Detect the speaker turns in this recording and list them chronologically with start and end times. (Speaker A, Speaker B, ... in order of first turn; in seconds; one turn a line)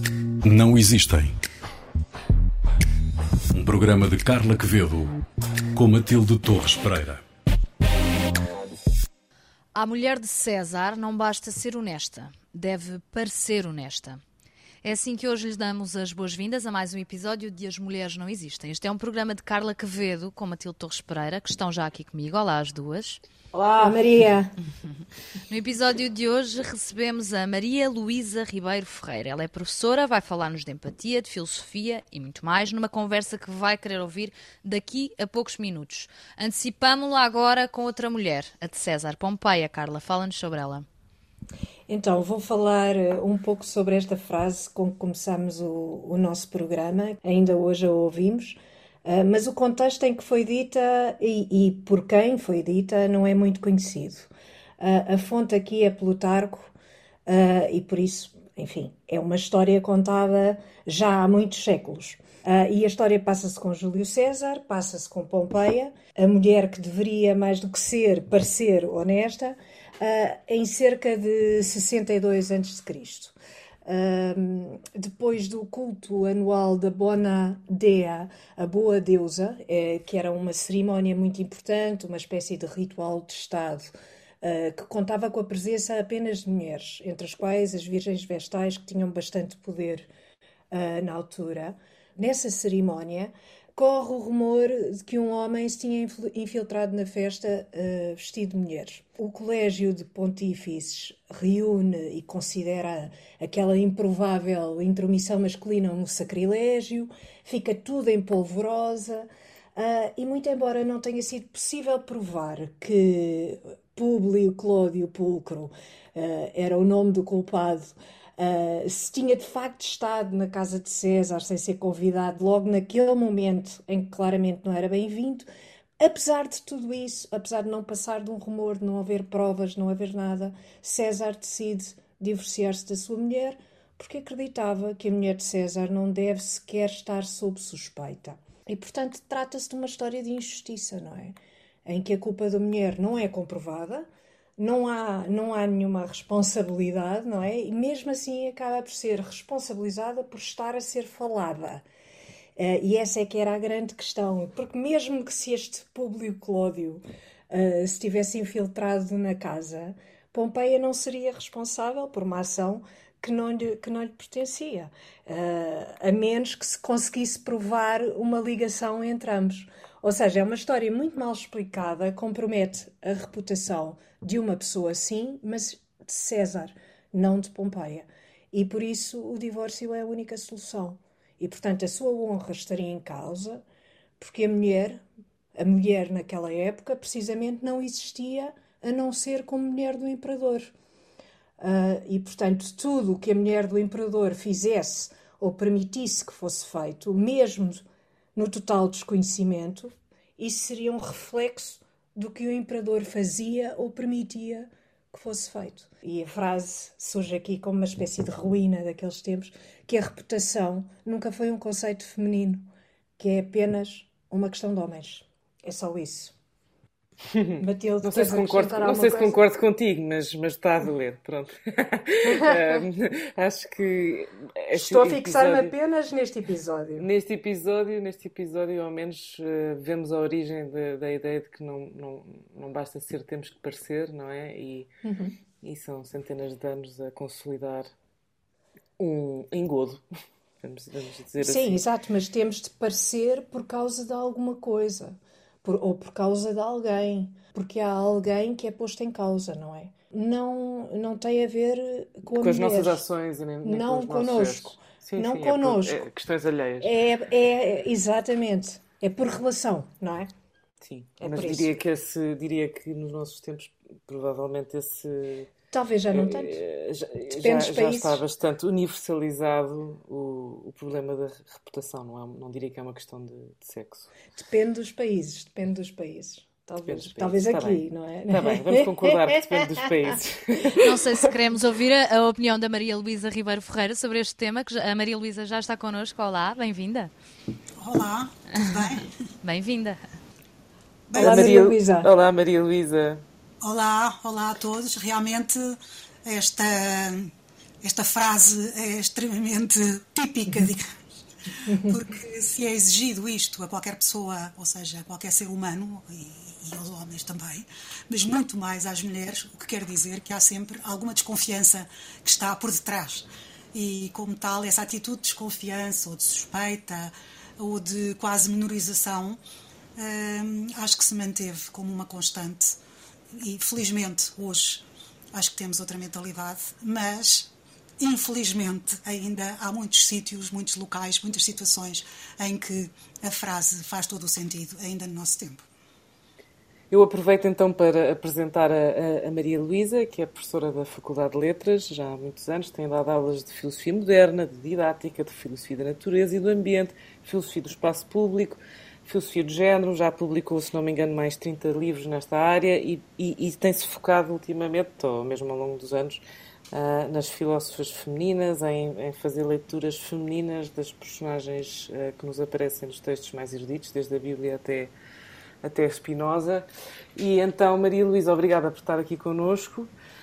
Speaker A: 0.4-1.4
Speaker A: 3.5-5.2
Speaker A: 5.8-7.2
Speaker B: 9.8-14.2
Speaker B: 14.8-23.2
Speaker C: 23.5-24.6
Speaker B: 25.5-40.9
Speaker C: 41.9-56.7
Speaker C: 57.3-73.3
Speaker C: 73.9-83.9
Speaker C: 84.4-90.1
Speaker C: 90.7-125.5
Speaker C: 126.0-144.1
Speaker C: 144.6-151.8
Speaker C: 152.6-183.6
Speaker C: 184.2-185.0
Speaker C: 185.6-190.7
Speaker C: 191.6-216.3
Speaker D: 217.3-225.7
Speaker C: 217.6-219.4
Speaker C: 222.3-222.7
Speaker C: 224.7-227.1
Speaker D: 227.0-234.9
Speaker C: 235.0-235.4
Speaker D: 235.6-237.9
Speaker D: 239.0-240.0
Speaker D: 240.6-241.8
Speaker C: 241.4-253.0
Speaker D: 252.4-256.9
Speaker C: 253.6-256.1
Speaker C: 256.8-260.3
Speaker D: 260.8-265.5
Speaker C: 261.2-261.7
Speaker C: 265.7-266.6
Speaker D: 266.1-274.1
Speaker C: 267.3-268.2
Speaker C: 274.4-279.9
Speaker D: 276.9-281.3
Speaker B: 280.8-287.1
Speaker E: 287.8-289.1
Speaker B: 289.4-290.0
Speaker E: 291.1-291.4
Speaker C: 291.1-292.1
Speaker D: 291.1-293.2
Speaker E: 293.6-301.0
Speaker E: 301.6-319.4
Speaker E: 320.0-322.8
Speaker E: 323.3-335.7
Speaker D: 336.9-356.2
Speaker D: 356.7-364.9
Speaker D: 365.6-369.9